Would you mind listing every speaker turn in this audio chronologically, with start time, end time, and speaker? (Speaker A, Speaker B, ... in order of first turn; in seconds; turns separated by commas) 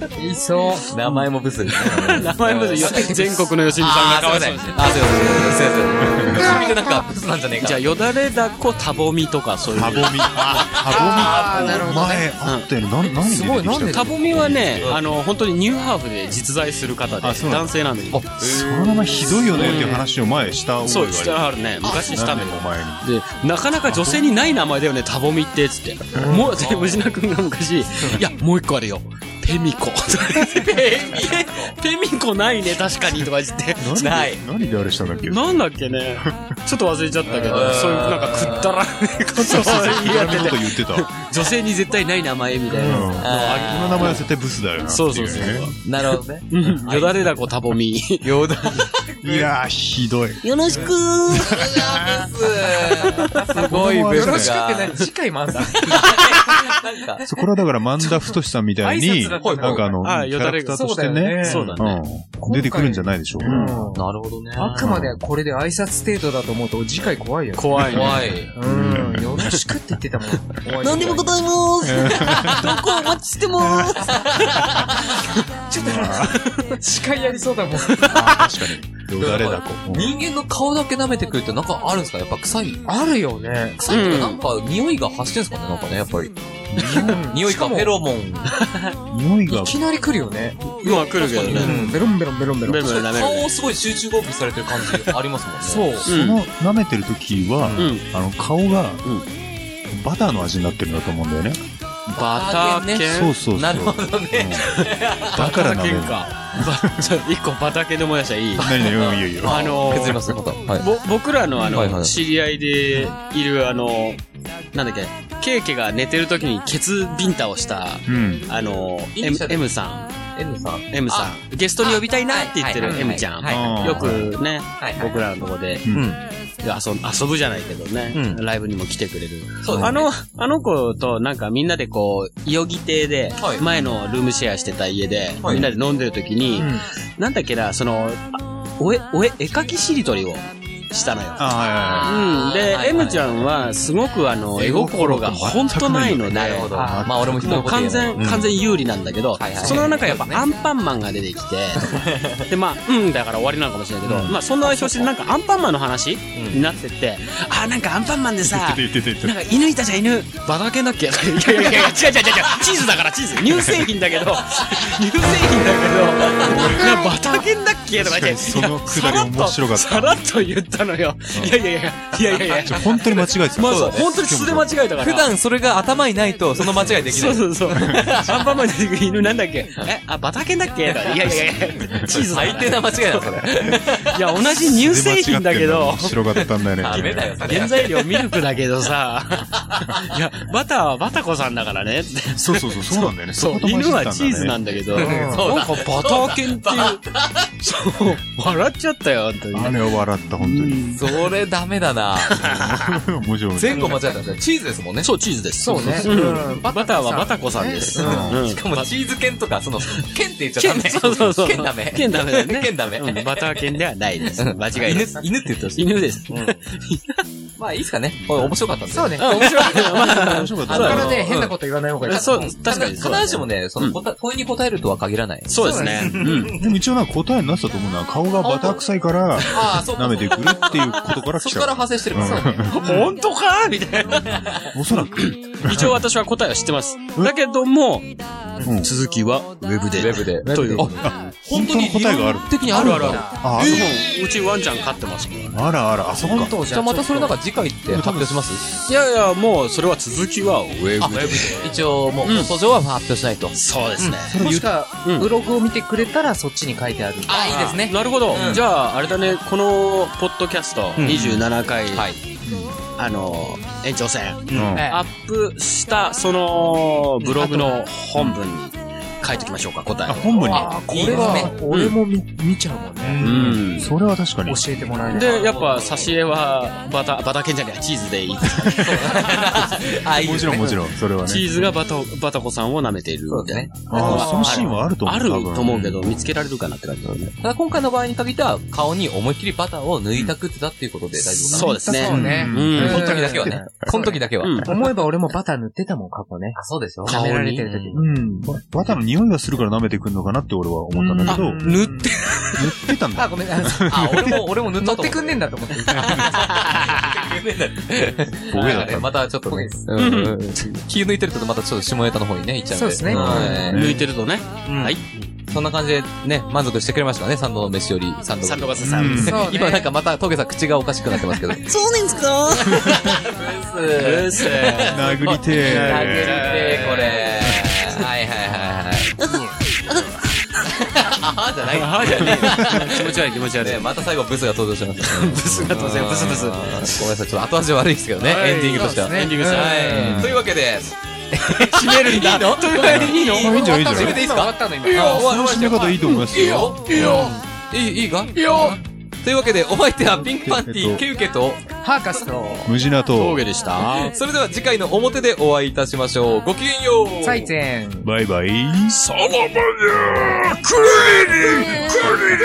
Speaker A: 0.1-1.0, Speaker B: 0.9-3.1, Speaker C: 1.8-5.5, Speaker A: 2.7-3.5, Speaker B: 3.8-8.0, Speaker D: 6.0-6.6, Speaker A: 6.4-6.7, Speaker C: 7.6-10.4, Speaker D: 9.7-14.9, Speaker B: 10.4-11.8, Speaker A: 10.8-12.3, Speaker A: 13.1-14.1, Speaker C: 13.9-18.2, Speaker B: 14.8-15.1, Speaker D: 17.2-23.1, Speaker B: 18.4-19.8, Speaker A: 19.0-19.3, Speaker C: 19.5-20.1, Speaker C: 20.8-33.9, Speaker B: 21.8-22.5, Speaker D: 23.8-24.3, Speaker A: 26.1-26.5, Speaker B: 26.5-27.1, Speaker B: 30.4-31.7, Speaker D: 33.8-35.5, Speaker B: 33.9-34.4, Speaker C: 35.2-44.2, Speaker B: 37.3-38.8, Speaker D: 39.3-41.1, Speaker A: 42.7-43.1, Speaker D: 42.8-45.7, Speaker B: 43.2-44.2, Speaker C: 44.9-45.8, Speaker B: 45.8-47.5, Speaker C: 46.5-48.5, Speaker B: 48.2-49.5, Speaker D: 49.2-50.4, Speaker E: 50.4-51.6, Speaker B: 50.7-55.1, Speaker D: 51.5-52.3, Speaker D: 53.3-54.5, Speaker A: 54.0-56.5, Speaker B: 55.8-57.2, Speaker D: 57.2-63.9, Speaker A: 58.0-60.0, Speaker B: 59.4-59.9, Speaker C: 60.0-60.8, Speaker A: 60.7-61.7, Speaker C: 61.4-62.0, Speaker A: 62.4-71.3, Speaker B: 63.5-64.9, Speaker D: 64.8-65.2, Speaker C: 67.6-68.3, Speaker B: 67.9-68.5, Speaker D: 68.2-69.7, Speaker E: 70.8-74.2, Speaker D: 71.9-72.7, Speaker D: 73.6-73.9, Speaker B: 74.0-75.2, Speaker A: 75.7-78.2, Speaker D: 75.7-76.4, Speaker D: 78.0-80.1, Speaker B: 79.2-82.8, Speaker A: 82.8-83.8, Speaker B: 83.8-88.6, Speaker C: 83.9-84.4, Speaker D: 86.7-87.3, Speaker A: 86.8-88.0, Speaker C: 88.5-88.9, Speaker D: 89.1-89.8, Speaker A: 89.5-92.9, Speaker C: 90.8-91.9, Speaker B: 91.2-92.1, Speaker C: 92.6-93.5, Speaker B: 92.8-95.9, Speaker A: 95.6-96.1, Speaker D: 96.0-99.1, Speaker C: 96.1-96.4, Speaker C: 97.8-98.1, Speaker D: 99.9-101.6, Speaker C: 102.1-103.3, Speaker B: 102.1-105.4, Speaker D: 103.1-104.7, Speaker C: 104.8-108.8, Speaker D: 105.3-107.0, Speaker D: 108.6-110.2, Speaker B: 108.6-110.8, Speaker C: 109.4-114.2, Speaker B: 111.7-112.1, Speaker C: 114.7-120.1, Speaker D: 118.1-118.5, Speaker B: 119.2-119.6, Speaker B: 120.3-121.3, Speaker C: 120.9-125.9, Speaker B: 121.8-125.2, Speaker D: 123.4-124.3, Speaker B: 125.9-126.2, Speaker C: 126.6-141.4, Speaker B: 128.1-128.4, Speaker B: 129.6-130.1, Speaker B: 133.4-133.7, Speaker B: 135.4-135.7, Speaker A: 136.6-136.8, Speaker D: 141.4-142.2, Speaker B: 141.8-143.4, Speaker C: 142.0-146.7, Speaker D: 144.5-147.7, Speaker B: 146.3-148.6, Speaker A: 146.7-147.1, Speaker C: 147.4-175.3, Speaker B: 149.4-150.4, Speaker A: 149.7-150.4, Speaker B: 151.8-152.4, Speaker D: 154.1-154.3, Speaker B: 154.1-155.1, Speaker B: 156.3-156.6, Speaker D: 158.4-159.4, Speaker B: 166.2-166.7, Speaker D: 166.4-167.1, Speaker D: 167.9-170.2, Speaker D: 172.5-174.7, Speaker B: 173.6-174.1, Speaker B: 175.0-178.5, Speaker C: 176.6-183.2, Speaker D: 177.7-178.0, Speaker D: 181.8-182.1, Speaker B: 182.1-184.6, Speaker C: 184.0-186.4, Speaker D: 184.8-187.3, Speaker B: 186.8-188.2, Speaker C: 186.9-197.0, Speaker B: 189.7-190.0, Speaker D: 192.3-194.6, Speaker B: 194.9-197.5, Speaker A: 194.9-195.5, Speaker C: 197.6-201.3, Speaker D: 199.5-200.8, Speaker B: 200.9-202.5, Speaker C: 202.2-203.0, Speaker D: 202.4-203.9, Speaker B: 203.6-205.1, Speaker C: 203.7-204.0, Speaker C: 205.0-208.9, Speaker A: 205.6-208.3, Speaker D: 205.7-206.0, Speaker D: 208.0-208.4, Speaker B: 208.0-213.8, Speaker C: 210.6-217.0, Speaker B: 214.3-216.6, Speaker B: 217.6-226.8, Speaker A: 218.9-219.8, Speaker C: 219.2-221.2, Speaker D: 219.7-221.3, Speaker A: 220.7-222.5, Speaker C: 222.1-224.0, Speaker C: 225.5-226.6, Speaker A: 225.6-226.2, Speaker D: 226.4-233.1, Speaker B: 228.4-228.8, Speaker B: 229.4-232.7, Speaker A: 232.2-232.6, Speaker C: 232.7-234.3, Speaker B: 234.1-234.7, Speaker D: 234.7-236.0, Speaker C: 235.0-238.1, Speaker D: 238.6-238.9, Speaker C: 238.8-241.0, Speaker B: 239.9-243.8, Speaker D: 240.8-244.0, Speaker C: 242.7-245.6, Speaker A: 243.1-243.4, Speaker D: 245.5-246.5, Speaker A: 246.2-247.4, Speaker B: 246.7-248.6, Speaker D: 247.9-248.6, Speaker C: 248.8-252.5, Speaker B: 251.0-254.4, Speaker C: 253.5-254.4, Speaker D: 254.2-254.7, Speaker A: 254.4-257.7, Speaker C: 255.0-255.3, Speaker B: 257.2-258.6, Speaker C: 257.5-262.1, Speaker B: 261.0-262.2, Speaker D: 262.4-262.8, Speaker C: 263.0-270.5, Speaker D: 264.5-264.9, Speaker A: 264.7-265.0, Speaker A: 267.2-267.8, Speaker D: 270.1-271.5, Speaker B: 270.3-271.5, Speaker A: 270.5-273.2, Speaker C: 271.7-272.0, Speaker B: 273.0-273.6, Speaker C: 273.2-273.9, Speaker D: 273.2-274.9, Speaker A: 274.4-275.5, Speaker C: 275.1-279.9, Speaker B: 275.1-276.1, Speaker D: 278.4-279.1, Speaker B: 278.8-280.7, Speaker D: 280.1-281.7, Speaker C: 280.5-287.4, Speaker B: 283.3-283.7, Speaker D: 283.9-286.3, Speaker A: 283.9-284.8, Speaker B: 285.7-285.9, Speaker B: 287.4-294.9, Speaker A: 291.1-298.5, Speaker C: 291.5-293.1, Speaker D: 291.9-293.7, Speaker C: 294.4-294.7, Speaker B: 296.6-298.1, Speaker C: 297.0-297.9, Speaker D: 298.4-301.7, Speaker A: 300.9-302.1, Speaker C: 301.3-302.8, Speaker D: 302.5-304.5, Speaker A: 303.1-303.9, Speaker B: 303.9-313.9, Speaker A: 304.8-306.4, Speaker D: 305.9-306.3, Speaker D: 308.5-309.1, Speaker A: 309.5-309.8, Speaker C: 309.9-310.4, Speaker A: 312.7-313.7, Speaker D: 313.1-314.1, Speaker C: 313.6-315.3, Speaker B: 314.6-321.6, Speaker C: 318.4-319.4, Speaker D: 318.8-319.4, Speaker A: 319.2-319.9, Speaker E: 321.6-322.8, Speaker B: 322.6-329.1, Speaker C: 324.0-327.1, Speaker D: 324.8-326.6, Speaker A: 326.5-327.1, Speaker D: 327.4-327.8, Speaker E: 329.2-330.2, Speaker B: 330.8-351.6, Speaker C: 331.7-333.9, Speaker C: 335.1-336.6, Speaker D: 335.6-336.4, Speaker C: 338.2-340.2, Speaker A: 338.7-340.4, Speaker D: 339.9-340.4, Speaker C: 341.8-343.5, Speaker A: 342.0-345.5, Speaker D: 342.8-344.2, Speaker D: 344.9-347.2, Speaker C: 348.4-348.7, Speaker D: 350.2-351.0, Speaker A: 351.8-352.7, Speaker D: 352.6-353.5, Speaker C: 353.1-354.1, Speaker B: 353.9-357.5, Speaker A: 357.2-358.1, Speaker D: 358.0-359.0, Speaker C: 359.2-359.6, Speaker C: 360.8-362.0, Speaker A: 361.3-362.1